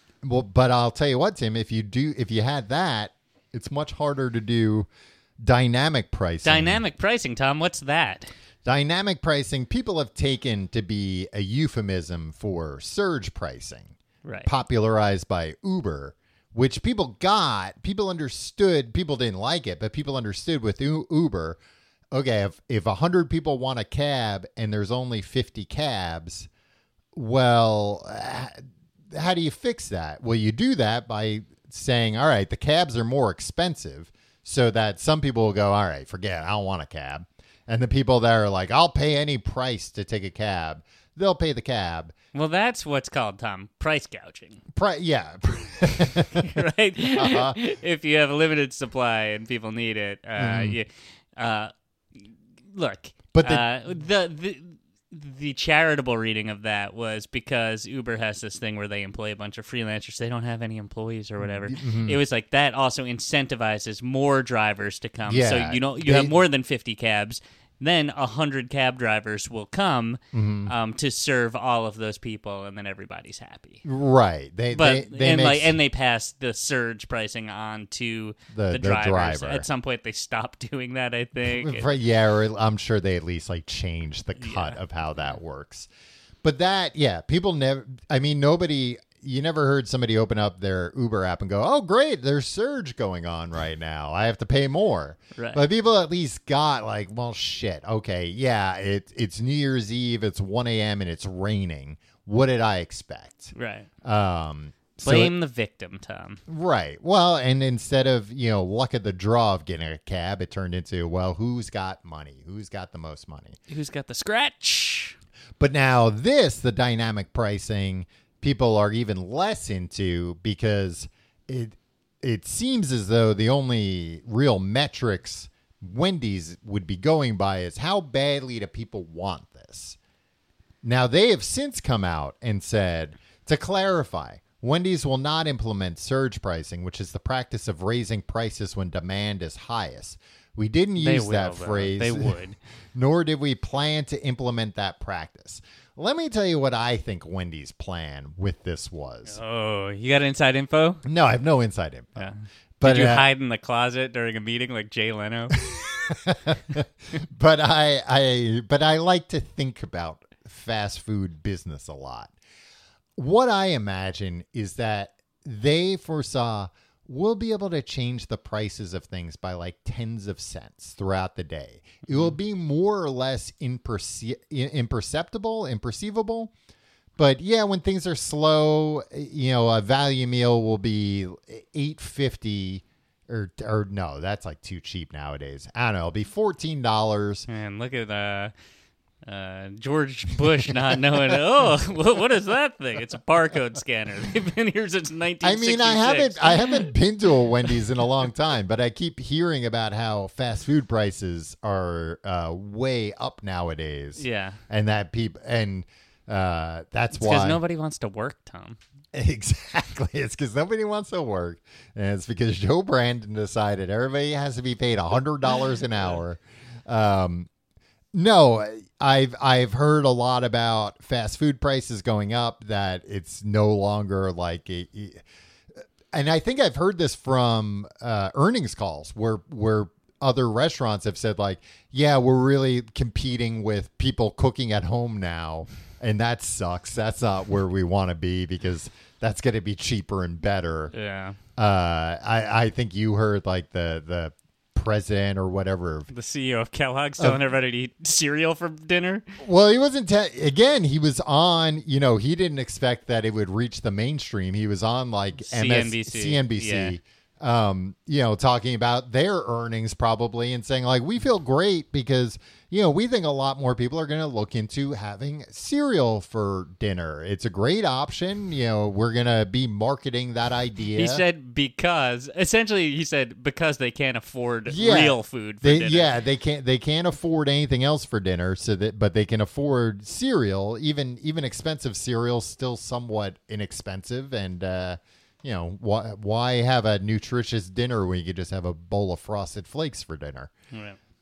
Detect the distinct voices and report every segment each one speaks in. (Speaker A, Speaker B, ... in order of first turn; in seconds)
Speaker A: 0.2-4.9, 5.4-6.8, 8.7-13.9, 14.5-21.6, 22.1-26.5, 27.1-42.1, 44.7-47.6, 50.4-50.8, 53.3-53.7, 61.4-62.2, 65.3-66.4, 70.3-70.7, 73.8-75.8, 78.5-79.7, 81.4-85.9, 86.4-105.3, 106.5-113.6, 115.6-130.0, 130.8-142.4, 142.9-149.4, 151.1-153.3, 155.6-162.3, 163.2-176.5, 177.2-187.5, 190.4-191.9, 195.4-207.6, 209.1-217.5, 218.1-225.2, 226.1-240.9, 241.6-246.1, 249.4-271.2, 274.7-290.5
Speaker B: 6.4-8.3, 14.2-14.5, 42.3-44.6, 46.4-51.7, 52.7-73.8, 74.7-81.9, 84.4-84.8, 95.4-95.6, 103.5-103.9, 105.0-106.4, 113.7-115.2, 141.0-142.6, 149.3-151.0, 152.2-155.6, 172.1-172.4, 187.5-188.5, 189.3-196.9, 204.2-204.6, 207.2-208.8, 240.9-241.4, 246.1-249.2, 255.4-257.0, 271.0-276.1, 290.7-291.0